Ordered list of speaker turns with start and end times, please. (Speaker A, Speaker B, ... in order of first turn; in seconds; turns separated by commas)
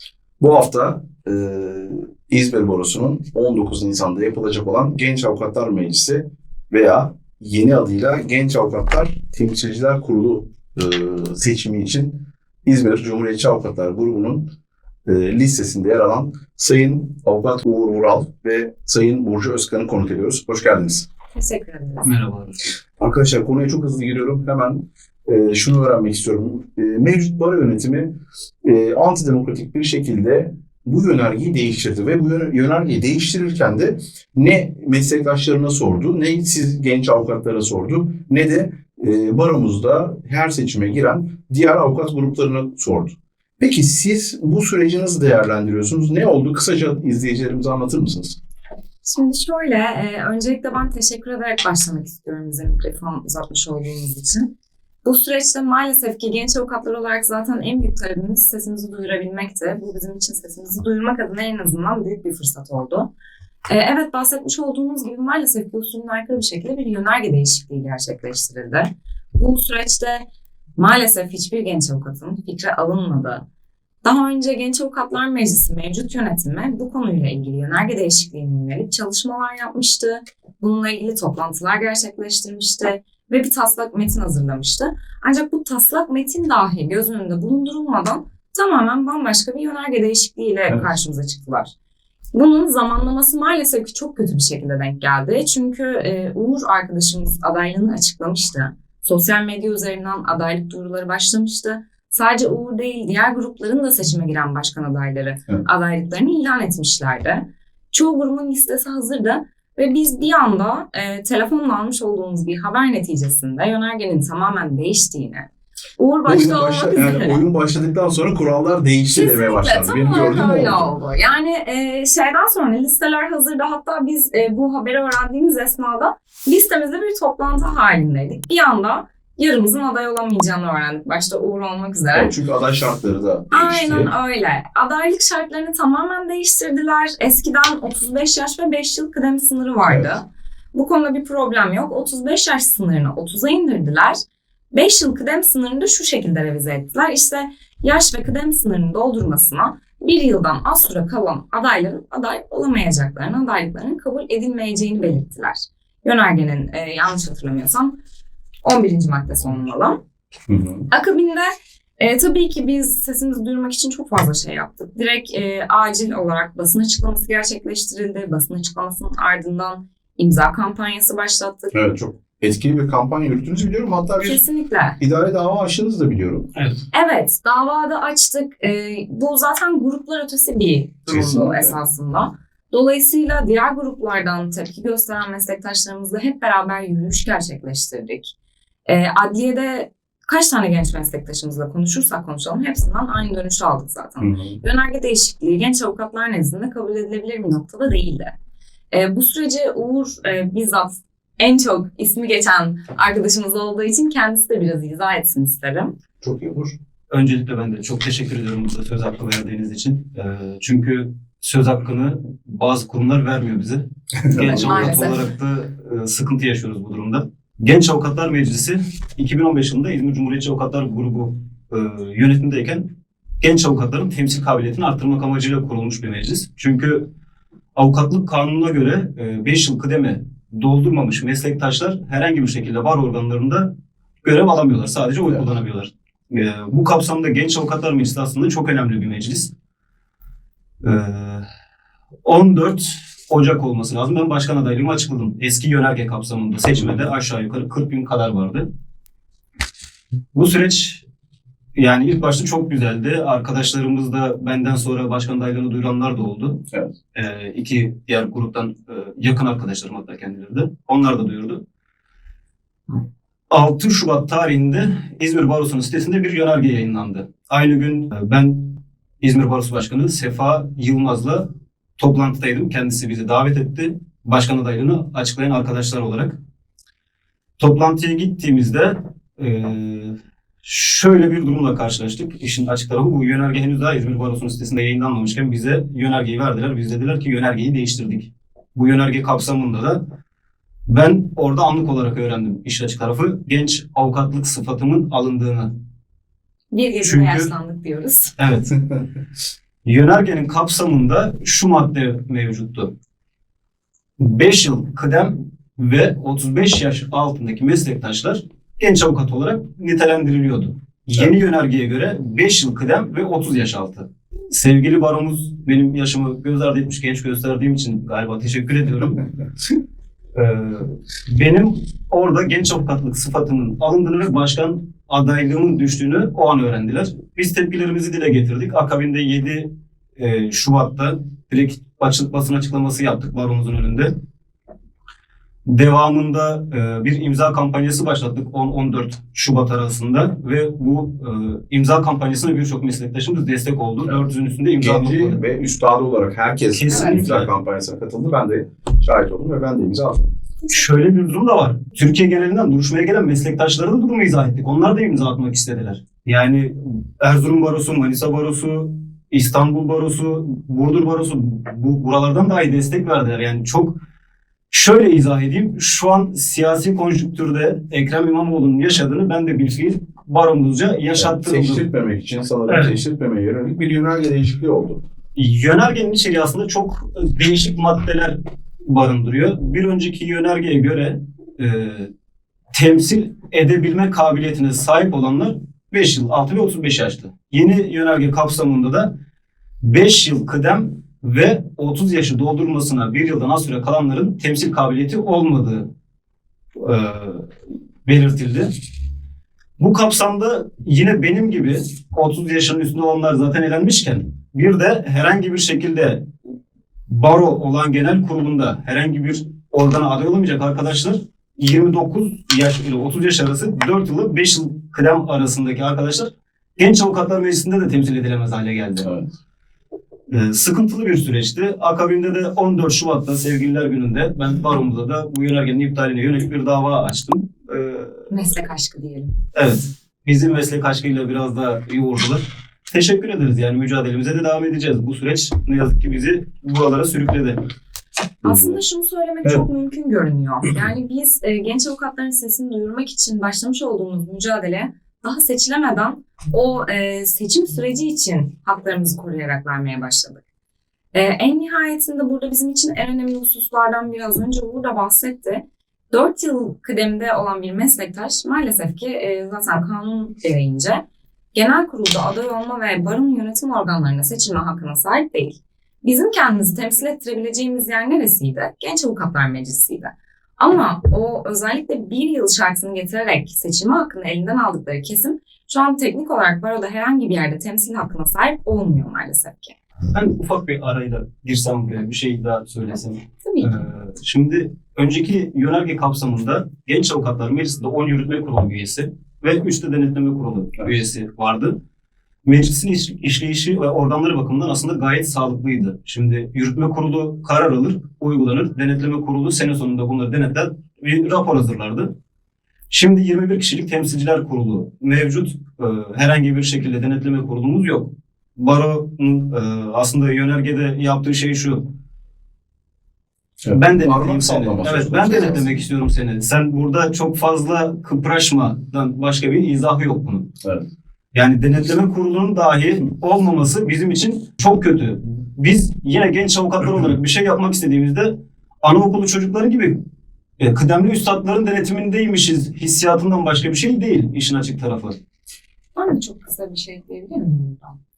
Speaker A: 0.4-14.5, Speaker A: 15.1-21.1, Speaker B: 21.3-22.1, Speaker C: 22.1-22.6, Speaker A: 23.0-48.4, Speaker B: 49.0-54.5, Speaker B: 55.0-63.1, Speaker B: 63.7-70.2, Speaker B: 70.8-73.4, Speaker B: 74.0-91.7, Speaker B: 92.3-117.4, Speaker A: 116.2-120.9, Speaker B: 119.1-132.3, Speaker A: 132.1-134.1, Speaker B: 133.5-144.2, Speaker A: 139.9-140.2, Speaker B: 144.7-158.0, Speaker B: 158.6-160.0, Speaker A: 160.5-160.9, Speaker B: 160.9-171.8, Speaker A: 171.7-174.4, Speaker B: 174.2-175.0, Speaker A: 175.0-176.5, Speaker C: 176.6-176.8, Speaker B: 176.9-188.3, Speaker A: 181.1-181.8, Speaker B: 188.9-198.3, Speaker A: 194.2-194.6, Speaker B: 198.9-205.9, Speaker A: 206.2-206.8, Speaker C: 207.1-227.1, Speaker A: 214.2-215.0, Speaker B: 214.3-215.3, Speaker C: 227.8-239.5, Speaker C: 240.8-241.5, Speaker C: 242.2-248.7, Speaker C: 250.3-251.0, Speaker C: 251.8-261.6, Speaker C: 263.5-276.4, Speaker C: 277.6-290.0, Speaker C: 290.9-295.8, Speaker B: 296.7-298.4, Speaker C: 297.0-297.5, Speaker C: 298.4-298.8, Speaker C: 299.8-302.9, Speaker C: 304.2-319.2, Speaker C: 320.3-334.1, Speaker C: 335.6-345.4, Speaker A: 344.8-350.3, Speaker C: 346.7-347.5, Speaker B: 346.9-347.2, Speaker C: 350.7-364.0, Speaker C: 364.7-371.9, Speaker A: 371.1-375.0, Speaker C: 372.7-373.0, Speaker C: 375.4-378.4, Speaker C: 378.9-382.1, Speaker C: 382.7-389.2, Speaker C: 389.8-395.9, Speaker C: 396.8-397.5, Speaker C: 398.0-398.7, Speaker C: 399.8-406.3, Speaker C: 407.1-419.1, Speaker A: 419.0-419.3, Speaker C: 420.3-428.3, Speaker B: 428.3-429.3, Speaker C: 429.5-437.6, Speaker A: 438.4-438.8, Speaker B: 438.4-450.4, Speaker B: 451.1-479.8, Speaker C: 480.1-491.8, Speaker B: 483.4-483.9, Speaker C: 492.4-502.1, Speaker C: 502.9-511.9, Speaker A: 513.6-515.9, Speaker C: 513.7-520.5, Speaker C: 521.3-530.0, Speaker C: 530.6-535.2, Speaker B: 536.0-538.0